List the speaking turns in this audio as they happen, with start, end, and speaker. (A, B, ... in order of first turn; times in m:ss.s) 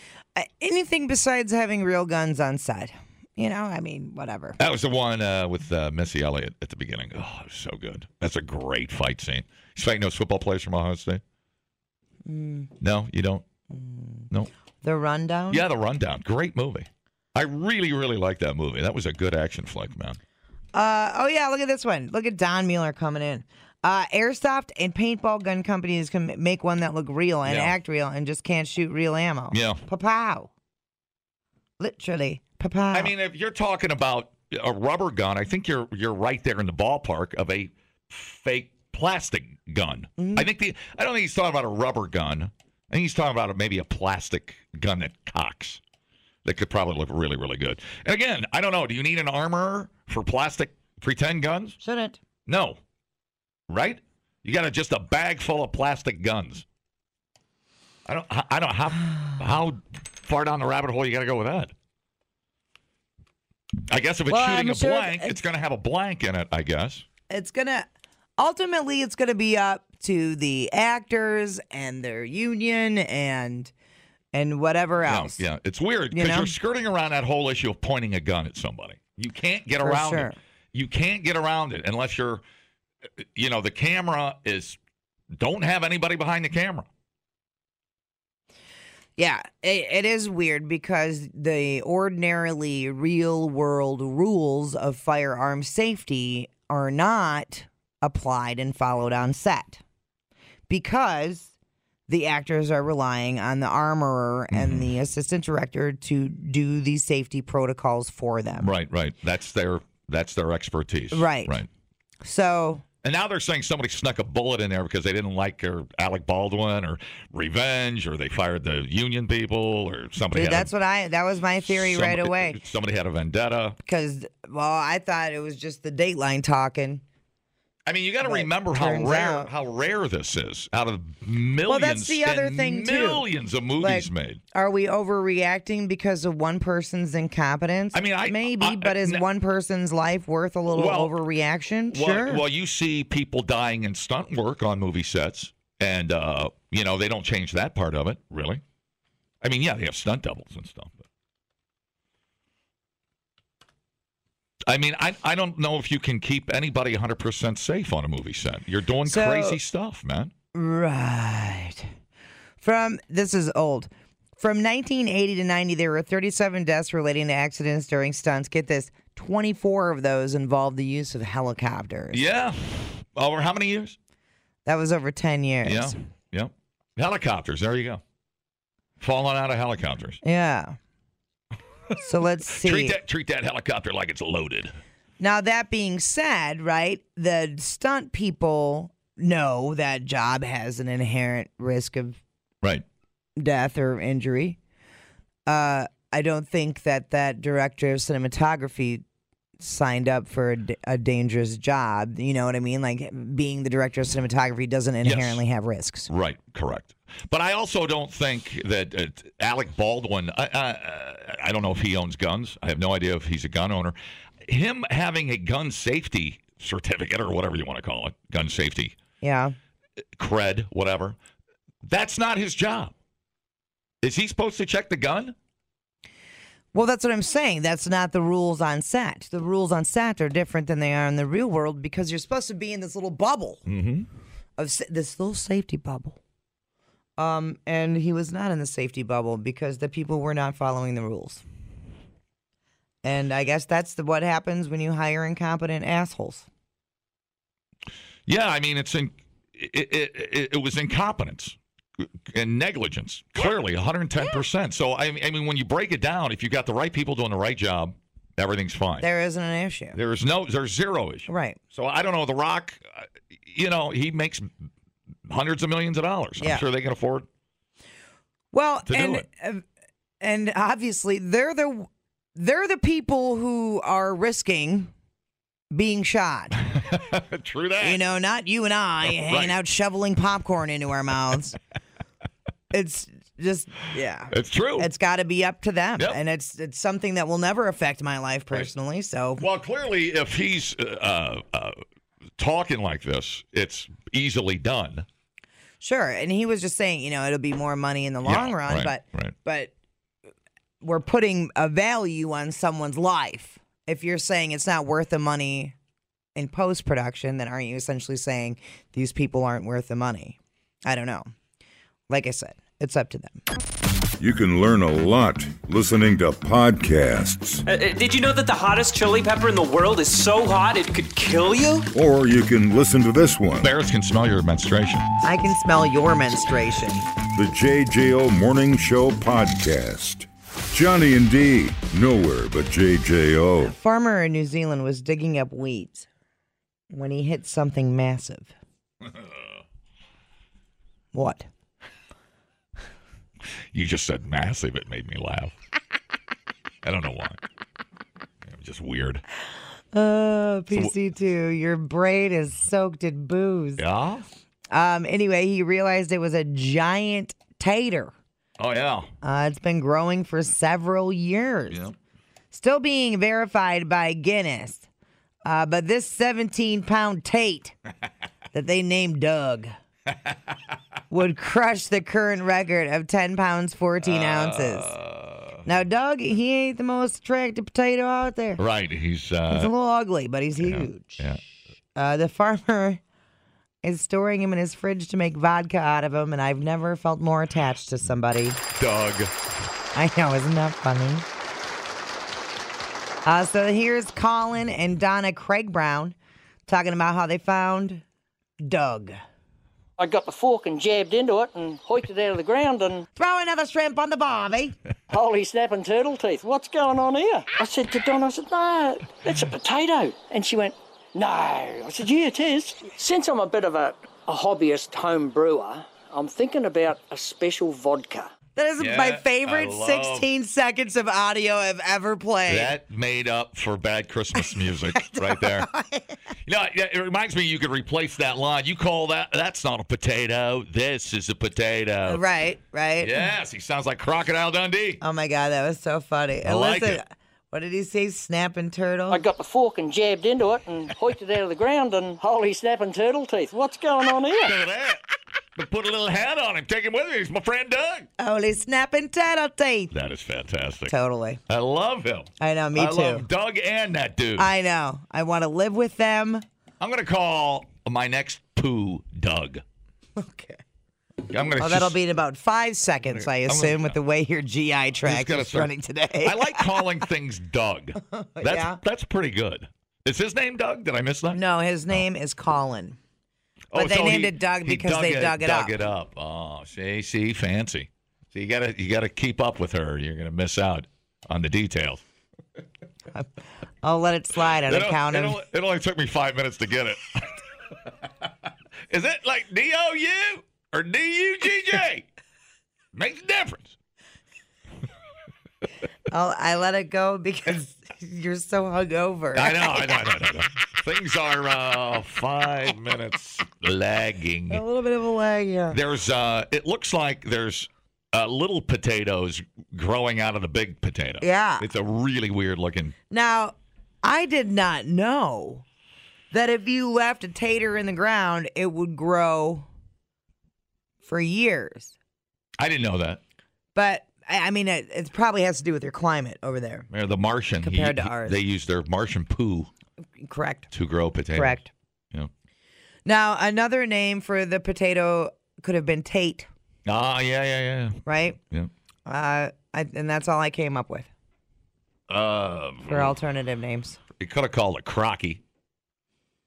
0:00.3-0:04.6 A
0:04.6-0:11.2 B
0:12.2-0:12.7 A
0:12.8-0:13.4 B
0:13.7-0:14.3 A
0:14.8-0:15.6 A
0:15.5-0:20.2 B
0:20.7-0:30.5 A
0:27.4-0:27.8 B
0:29.5-0:29.8 B
0:31.8-0:33.1 A
0:32.9-0:45.8 B
0:40.2-0:40.5 A
0:46.4-0:51.8 B
0:51.8-0:52.2 A
0:52.5-0:52.8 B
0:53.7-0:56.6 B
0:58.0-1:01.7 B
1:03.9-1:07.0 B
1:04.3-1:05.4 A
1:07.3-1:13.7 A
1:14.3-1:15.4 A
1:15.0-1:22.4 B
1:16.1-1:16.5 A
1:19.8-1:20.4 A
1:23.2-1:24.8 B
1:25.3-1:26.9 B
1:29.2-1:39.8 A
1:40.7-1:41.5 A
1:42.1-1:48.7 A
1:44.5-1:44.9 B
1:48.6-1:51.7 B
1:51.1-1:51.6 A
1:52.2-1:52.8 A
1:53.0-2:00.7 B
2:00.3-2:02.6 A
2:01.6-2:03.8 B
2:03.8-2:07.0 A
2:07.8-2:14.4 B
2:08.2-2:09.5 A
2:11.6-2:13.2 A
2:13.8-2:22.4 A
2:17.9-2:19.2 B
2:20.7-2:21.1 B
2:21.9-2:28.6 B
2:29.4-2:31.0 B
2:34.7-2:40.3 B
2:39.0-2:39.6 A
2:40.5-2:41.9 A
2:42.6-2:52.2 A
2:52.1-2:54.0 B
2:54.6-2:55.9 A
2:55.6-2:58.0 B
2:59.0-3:00.2 B
3:00.2-3:00.8 A
3:02.0-3:03.0 A
3:02.5-3:04.7 B
3:05.2-3:12.2 A
3:13.4-3:14.6 A
3:15.5-3:19.0 A
3:19.6-3:26.1 A
3:25.0-3:25.4 B
3:26.1-3:39.0 B
3:39.2-3:39.6 A
3:40.2-3:41.2 B
3:41.8-3:42.9 B
3:44.0-3:45.3 B
3:46.7-3:53.6 A
3:53.7-3:54.1 B
3:54.6-3:56.2 A
3:57.2-4:01.4 A
4:03.0-4:06.5 A
4:08.3-4:11.6 B
4:12.3-4:19.1 B
4:19.0-4:20.0 A
4:19.9-4:24.5 B
4:21.3-4:21.6 A
4:25.3-4:27.3 B
4:26.4-4:26.6 A
4:28.5-4:29.6 A
4:28.9-4:29.2 B
4:30.2-4:34.9 A
4:35.7-4:36.6 A
4:36.7-4:38.0 B
4:37.8-4:41.6 A
4:39.1-4:39.5 B
4:42.7-4:49.4 A
4:44.3-4:44.9 B
4:49.4-4:51.8 B
4:52.4-4:55.0 B
4:55.8-4:59.7 A
4:58.2-4:59.3 B
5:00.8-5:05.7 A
5:06.3-5:11.3 A
5:12.1-5:13.4 A
5:14.2-5:17.6 C
5:17.6-5:21.9 D
5:21.9-5:23.7 C
5:23.6-5:25.1 B
5:25.2-5:27.1 A
5:27.3-5:33.7 C
5:33.6-5:36.1 A
5:36.9-5:38.5 A
5:41.1-5:41.4 A
5:43.7-5:45.5 B
5:46.8-5:47.4 B
5:48.4-5:49.2 B
5:49.9-5:53.8 A
5:53.8-5:54.2 B
5:54.7-5:58.1 A
5:58.6-5:59.1 B
5:59.2-6:01.8 A
6:02.5-6:04.8 A
6:05.4-6:07.7 A
6:08.5-6:09.7 A
6:11.1-6:14.9 A
6:14.0-6:15.6 B
6:15.6-6:18.6 A
6:18.6-6:19.7 B
6:19.5-6:21.2 A
6:20.6-6:21.4 B
6:21.9-6:23.0 A
6:23.8-6:28.6 A
6:28.8-6:29.3 B
6:29.9-6:31.2 A
6:33.2-6:36.2 A
6:36.7-6:38.0 A
6:38.6-6:39.2 A
6:40.0-6:43.0 E
6:43.2-6:44.8 A
6:45.1-6:58.3 E
6:58.6-7:02.7 A
6:58.8-7:00.3 B
7:02.5-7:05.7 B
7:04.9-7:06.2 A
7:06.4-7:12.2 B
7:12.1-7:13.3 A
7:13.0-7:15.0 B
7:15.0-7:19.2 A
7:16.4-7:17.0 B
7:19.1-7:24.5 E
7:24.4-7:25.0 B
7:25.6-7:28.1 B
7:28.2-7:29.9 A
7:29.9-7:31.0 B
7:30.9-7:31.4 A
7:31.5-7:34.5 B
7:32.4-7:33.2 A
7:34.4-7:36.4 A
7:36.8-7:39.6 B
7:40.2-7:40.6 A
7:41.3-7:42.0 B
7:41.6-7:46.8 A
7:43.2-7:43.9 B
7:45.0-7:45.7 B
7:46.2-7:51.4 B
7:48.1-7:48.8 A
7:51.3-7:53.0 A
7:53.7-8:02.0 B
7:53.7-7:55.7 A
8:03.8-8:05.4 A
8:04.6-8:07.4 B
8:08.9-8:12.0 B
8:12.9-8:13.8 B
8:16.1-8:20.0 A
8:19.3-8:24.6 B
8:24.5-8:25.8 A
8:25.7-8:32.9 B
8:31.2-8:31.6 A
8:33.1-8:35.6 A
8:36.3-8:39.7 A
8:41.0-8:41.9 A
8:42.6-8:43.2 B
8:43.7-8:46.9 A
8:46.9-8:49.7 B
8:47.6-8:48.4 A
8:50.2-8:50.7 A
8:50.7-8:51.6 B
8:51.3-8:51.7 A
8:53.0-8:56.5 A
8:56.8-8:58.7 B
8:58.0-8:58.4 A
8:59.0-9:01.1 A
9:02.1-9:03.2 B
9:02.9-9:04.0 A
9:04.2-9:05.4 B